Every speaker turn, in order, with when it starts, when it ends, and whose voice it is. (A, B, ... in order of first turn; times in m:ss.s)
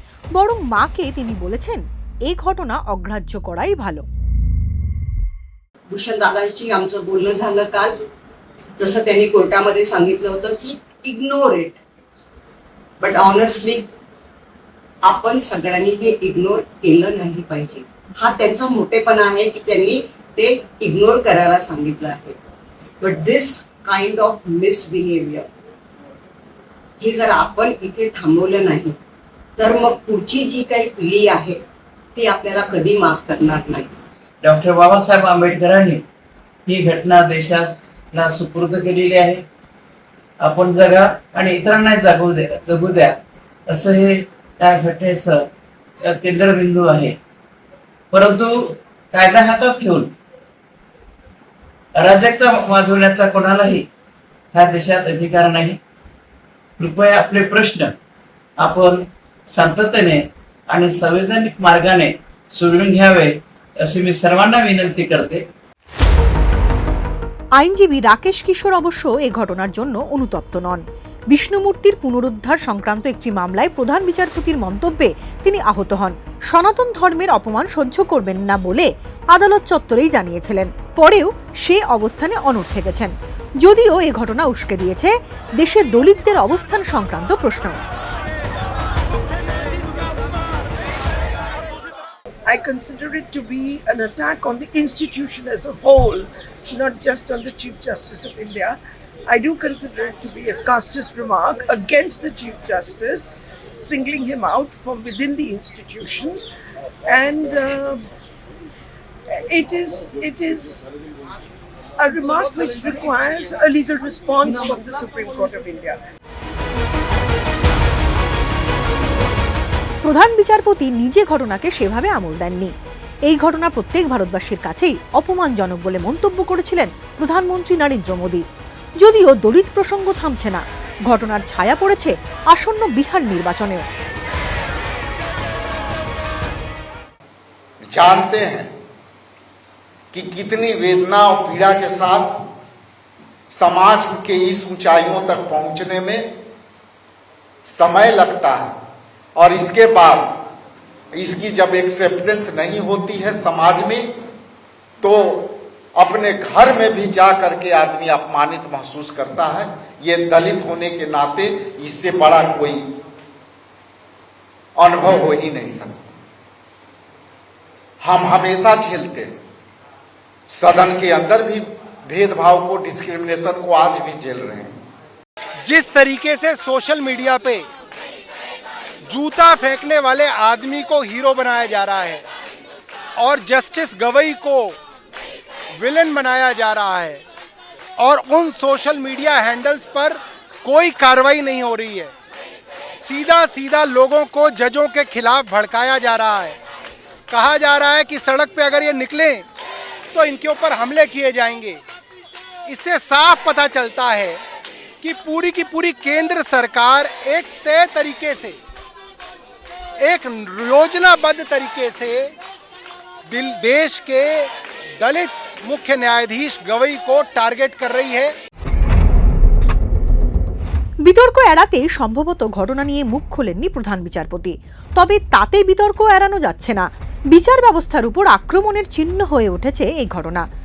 0:00.4-0:04.0 A
0:05.9-0:08.0 B
0:08.8-0:11.8 B
0:13.0-0:13.9 B
0:15.0-0:22.4 B
0:23.0-0:25.5 B
0:27.0-0:29.0 B
0:29.6-0:31.6 B
0:32.2-0:34.0 B
0:34.4-0:36.0 C
0:36.7-0:39.4 C
0:40.4-0:45.5 C
0:46.0-0:47.2 C
0:48.1-0:50.1 C
0:52.0-0:53.9 C
0:54.5-0:55.8 C
0:56.8-0:58.0 C
0:58.6-1:05.4 C
1:07.6-1:27.8 A
1:32.5-1:46.4 D
1:47.1-1:48.0 D
1:49.3-1:50.8 D
1:52.0-1:56.0 D
2:00.0-2:02.7 A
2:03.3-2:08.4 A
2:09.0-2:13.8 A
2:17.8-2:18.7 E
2:20.1-2:22.4 E
2:23.5-2:26.3 E
2:27.6-2:28.8 E
2:29.4-2:30.4 E
2:31.1-2:34.1 E
2:35.0-2:42.9 E
2:44.8-2:46.1 E
2:48.0-2:49.3 E
2:50.5-2:54.8 E
2:55.6-2:57.6 F
2:59.1-3:02.2 F
3:03.2-3:04.8 F
3:05.8-3:07.2 F
3:08.0-3:12.1 F
3:13.0-3:16.6 F
3:17.3-3:19.4 F
3:20.1-3:21.8 F
3:22.7-3:24.4 F
3:25.0-3:28.6 F
3:30.0-3:32.3 F
3:33.3-3:38.3 F
3:41.0-3:50.4 A